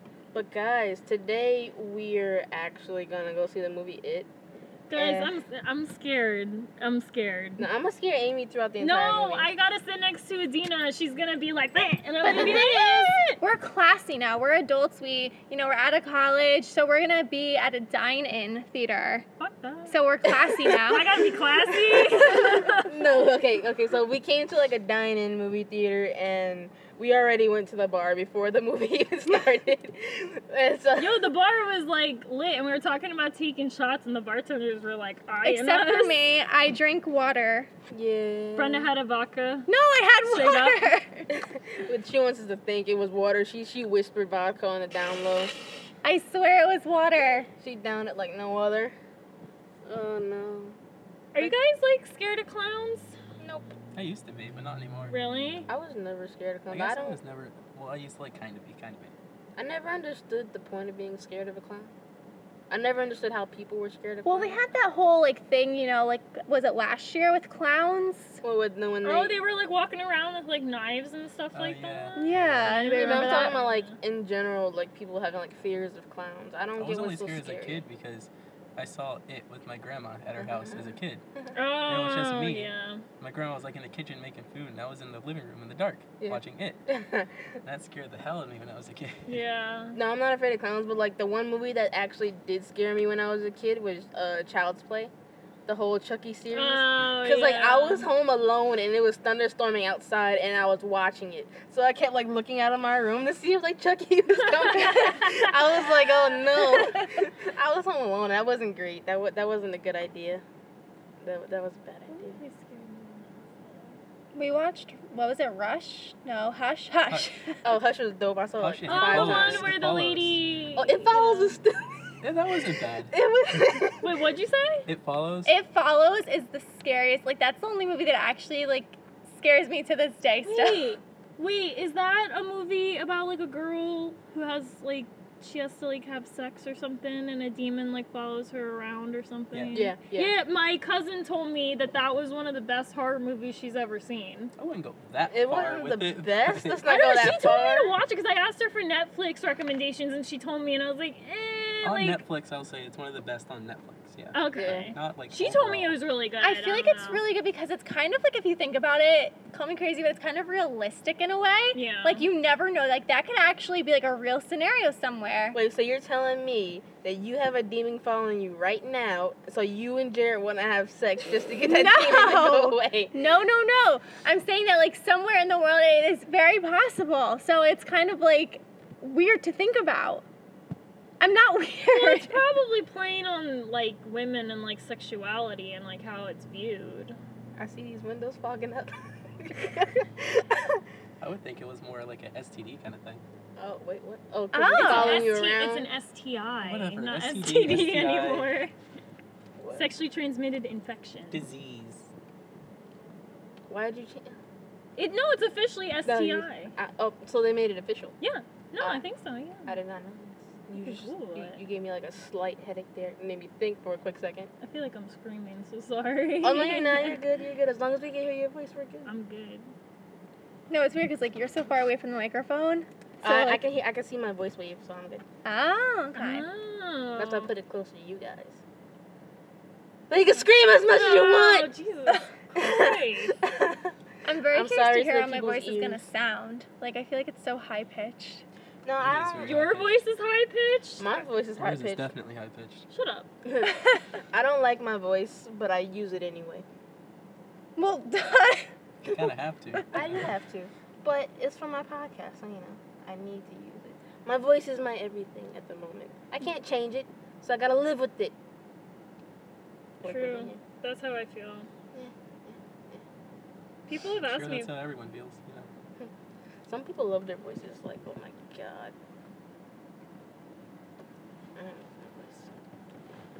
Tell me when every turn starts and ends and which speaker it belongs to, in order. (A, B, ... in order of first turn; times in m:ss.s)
0:00.3-0:04.3 A
0:04.9-0:07.7 B
0:04.9-0:05.3 A
0:07.6-0:09.5 A
0:08.8-0:13.4 B
0:12.2-0:13.2 A
0:13.4-0:19.2 C
0:19.4-0:20.0 B
0:19.9-0:21.2 C
0:20.8-0:23.2 B
0:21.9-0:31.3 A
0:31.0-0:36.2 B
0:35.4-0:37.7 C
0:37.9-0:38.9 A
0:38.6-0:39.7 B
0:39.7-0:41.3 C
0:40.2-0:40.8 B
0:41.3-0:45.5 A
0:46.0-0:47.5 C
0:47.6-0:48.9 A
0:49.8-0:50.8 A
0:51.3-0:53.1 B
0:53.4-0:53.7 A
0:53.9-0:55.2 D
0:55.1-0:55.7 B
0:55.7-0:57.2 A
0:56.7-0:59.1 D
0:59.6-1:01.9 A
1:02.7-1:04.6 A
1:04.2-1:08.4 C
1:08.4-1:09.4 A
1:09.0-1:14.0 B
1:11.5-1:13.0 D
1:12.2-1:13.6 C
1:12.9-1:17.8 A
1:16.8-1:21.2 D
1:20.4-1:21.5 A
1:21.5-1:23.0 B
1:21.9-1:26.8 D
1:26.2-1:27.3 A
1:27.6-1:29.4 D
1:29.2-1:30.0 B
1:29.9-1:35.1 A
1:35.6-1:50.4 A
1:36.5-1:38.1 B
1:44.3-1:46.9 B
1:51.2-1:52.4 A
1:52.1-1:54.0 B
1:54.3-1:57.6 C
1:57.6-1:59.7 A
1:58.6-2:00.4 D
1:58.9-2:01.6 B
2:00.8-2:02.1 A
2:02.2-2:03.1 D
2:03.1-2:04.1 A
2:04.0-2:04.9 B
2:04.9-2:05.5 D
2:05.4-2:10.9 C
2:10.4-2:24.5 B
2:19.5-2:19.8 D
2:19.7-2:20.3 A
2:24.6-2:26.8 D
2:25.3-2:27.9 A
2:26.8-2:32.2 B
2:31.8-2:36.0 D
2:34.3-2:37.2 B
2:34.5-2:34.9 A
2:36.4-2:45.6 C
2:41.7-2:42.3 B
2:45.5-2:53.2 A
2:51.6-3:00.2 C
3:01.2-3:02.4 C
3:01.9-3:07.2 B
3:07.6-3:10.8 A
3:11.2-3:13.2 D
3:13.6-3:15.9 A
3:14.5-3:15.3 C
3:14.8-3:18.7 B
3:16.6-3:18.5 D
3:19.6-3:19.8 A
3:19.7-3:21.4 B
3:21.3-3:22.1 D
3:23.7-3:24.4 A
3:25.0-3:26.7 B
3:26.0-3:28.2 A
3:28.2-3:29.8 B
3:29.7-3:34.5 A
3:30.8-3:31.6 B
3:34.6-3:37.2 B
3:36.4-3:39.1 A
3:39.0-3:39.7 B
3:40.7-3:43.6 C
3:43.2-3:45.2 A
3:45.4-3:46.4 C
3:46.1-3:47.5 B
3:47.2-3:48.6 A
3:50.1-3:51.7 A
3:50.9-3:53.4 B
3:52.6-3:53.9 A
3:54.2-3:58.4 C
3:54.5-3:56.0 A
3:58.8-3:59.6 A
3:59.0-4:00.0 D
3:59.4-4:01.2 B
4:01.0-4:02.1 A
4:01.6-4:02.9 D
4:02.9-4:03.3 B
4:03.4-4:06.6 A
4:03.6-4:04.0 C
4:07.8-4:08.7 C
4:09.0-4:10.3 D
4:09.9-4:18.3 A
4:20.0-4:20.6 A
4:20.0-4:21.7 B
4:21.9-4:23.0 A
4:23.9-4:24.7 B
4:23.9-4:25.7 D
4:26.6-4:28.9 A
4:31.6-4:32.5 A